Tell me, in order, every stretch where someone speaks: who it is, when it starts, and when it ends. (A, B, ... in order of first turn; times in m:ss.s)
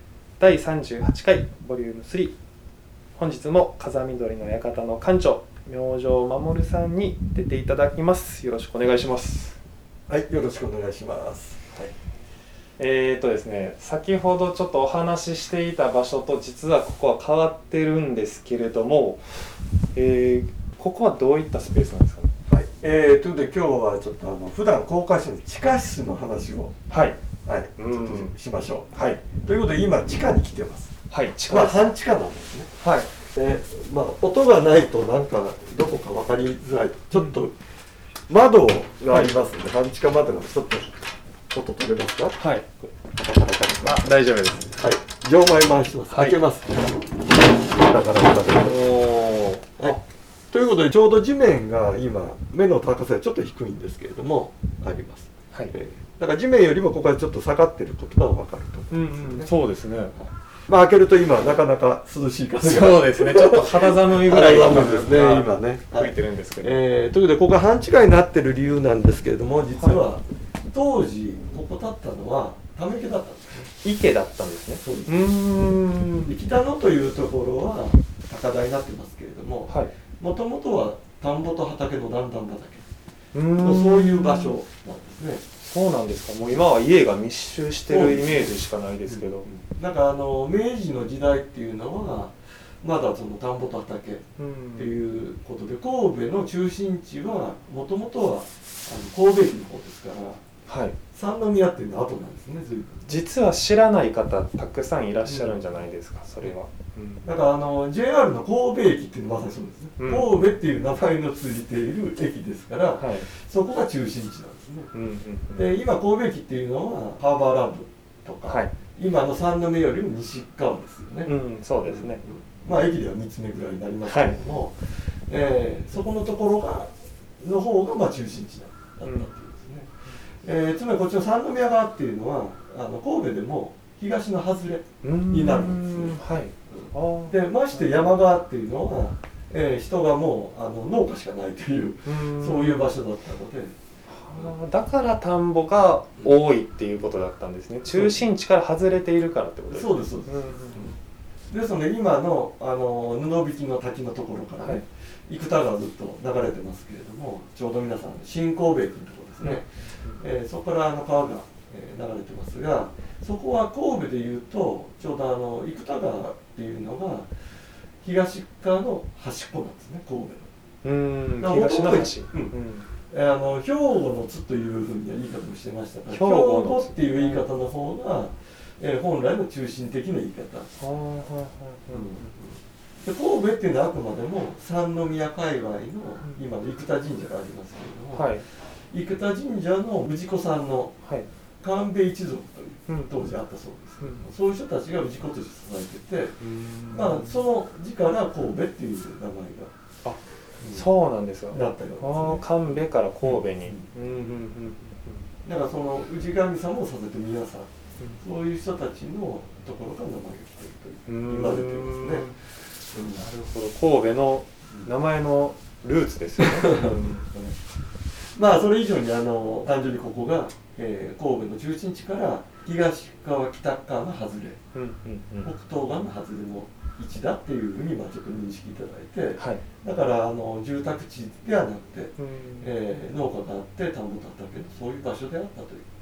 0:00.4-0:02.4 A
0:03.2-0:09.6 A
0:10.1-0:11.9 B
0:12.8-0:19.2 A
0:20.0-0:22.4 A
0:22.5-0:26.8 B
0:26.9-0:27.2 A
0:27.4-0:30.9 B
0:27.8-0:28.3 A
0:29.0-0:29.3 A
0:31.1-0:31.9 A
0:31.5-0:32.7 B
0:32.8-0:33.1 A
0:33.3-0:37.6 B
0:38.3-0:44.0 B
0:42.4-0:42.6 A
0:43.8-0:44.7 A
0:44.8-0:48.9 B
0:46.1-0:46.4 A
0:48.6-0:50.0 A
0:50.5-0:59.5 B
0:58.9-1:00.2 A
1:00.2-1:13.7 B
1:02.6-1:06.8 A
1:13.8-1:16.3 A
1:14.8-1:15.4 B
1:16.3-1:22.8 B
1:23.3-1:24.6 A
1:23.6-1:25.4 B
1:25.6-1:29.5 A
1:27.9-1:40.4 B
1:34.4-1:34.9 A
1:40.7-1:41.0 A
1:41.1-1:43.1 B
1:43.1-1:47.3 A
1:45.2-1:45.6 B
1:47.2-1:54.9 B
1:50.0-1:50.3 A
1:53.0-1:53.3 A
1:54.9-1:55.6 A
1:55.5-2:01.3 B
2:01.3-2:02.2 A
2:01.8-2:09.9 B
2:04.1-2:04.4 A
2:09.0-2:09.3 A
2:10.4-2:23.8 B
2:15.0-2:18.0 A
2:22.0-2:23.0 A
2:24.1-2:30.8 A
2:27.9-2:28.2 B
2:29.7-2:31.0 B
2:31.5-2:47.3 B
2:39.4-2:40.2 A
2:48.0-2:50.5 B
2:50.8-2:52.9 A
2:51.4-2:52.6 B
2:53.1-3:00.7 B
2:56.1-2:57.5 A
3:00.8-3:02.3 A
3:01.9-3:08.3 B
3:08.1-3:08.4 A
3:08.9-3:10.9 B
3:11.6-3:16.4 B
3:14.0-3:14.3 A
3:16.4-3:17.4 A
3:16.9-3:19.7 B
3:20.6-3:20.9 B
3:20.7-3:25.2 A
3:21.5-3:22.4 B
3:23.2-3:23.9 B
3:25.4-3:32.3 B
3:31.1-3:32.4 A
3:32.9-3:33.2 B
3:33.1-3:37.2 A
3:36.4-3:37.6 B
3:38.3-3:44.6 B
3:44.7-3:45.5 A
3:45.4-3:55.9 B
3:49.4-3:49.6 A
3:52.2-3:52.7 A